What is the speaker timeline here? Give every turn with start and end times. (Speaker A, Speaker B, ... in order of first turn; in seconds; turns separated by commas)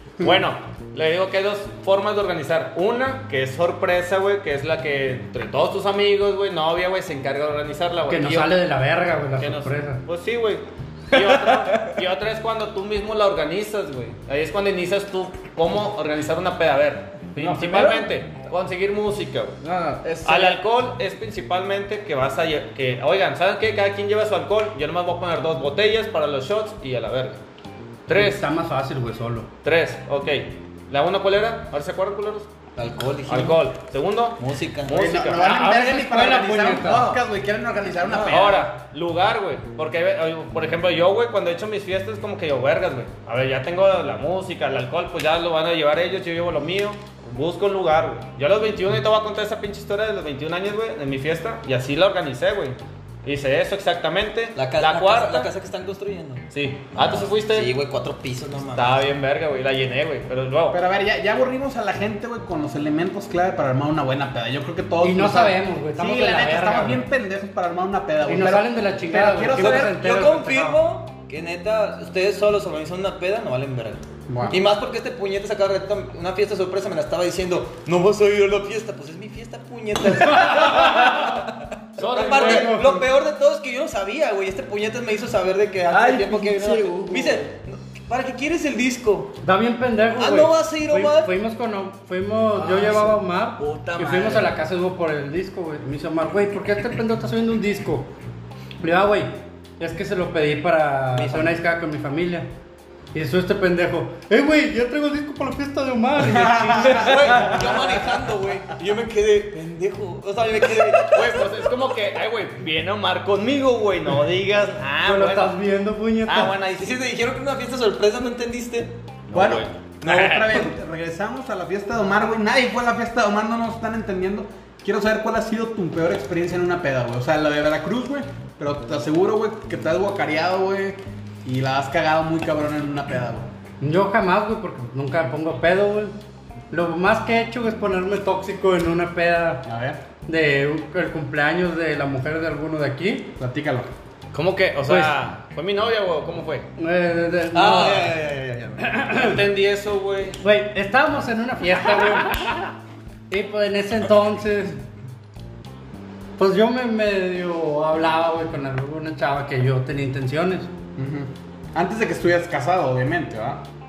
Speaker A: 0.2-8.5, Speaker B: 8.1-10.0, Speaker A: 9.4-19.6, Speaker C: 11.2-11.8, Speaker C: 17.4-18.1, Speaker C: 19.6-20.6, Speaker A: 20.2-27.4, Speaker A: 28.1-28.4, Speaker B: 28.1-29.5, Speaker A: 29.6-32.5, Speaker D: 32.8-33.7, Speaker A: 33.3-35.5, Speaker D: 34.4-35.0, Speaker E: 34.9-38.6, Speaker B: 35.3-37.2, Speaker A: 38.2-55.5, Speaker D: 54.5-59.1, Speaker A: 56.5-57.7, Speaker A: 58.7-60.8, Speaker E: 60.7-70.7, Speaker B: 65.0-67.0, Speaker B: 68.2-70.6, Speaker D: 69.5-89.3, Speaker E: 74.3-74.6, Speaker A: 80.7-81.2, Speaker A: 82.0-82.8, Speaker B: 82.2-83.0, Speaker C: 85.9-87.5, Speaker B: 89.4-98.1, Speaker D: 90.2-91.3, Speaker C: 92.6-94.5, Speaker B: 98.8-102.5, Speaker B: 103.1-107.5, Speaker E: 106.3-107.8, Speaker D: 106.8-111.5, Speaker A: 111.0-115.5, Speaker B: 115.0-116.5, Speaker A: 116.2-117.0, Speaker D: 116.8-119.0, Speaker A: 119.3-120.6, Speaker E: 119.3-133.4, Speaker D: 120.0-120.7, Speaker B: 133.8-136.1, Speaker B: 136.7-139.7, Speaker E: 139.7-140.0, Speaker B: 140.2-143.3, Speaker E: 143.4-143.9, Speaker A: 144.3-146.7, Speaker B: 144.9-145.2, Speaker B: 146.8-148.2, Speaker D: 147.5-149.0, Speaker B: 148.8-149.3, Speaker A: 149.1-150.4, Speaker B: 150.4-152.5, Speaker B: 153.3-154.8, Speaker B: 156.4-160.7, Speaker E: 161.0-163.6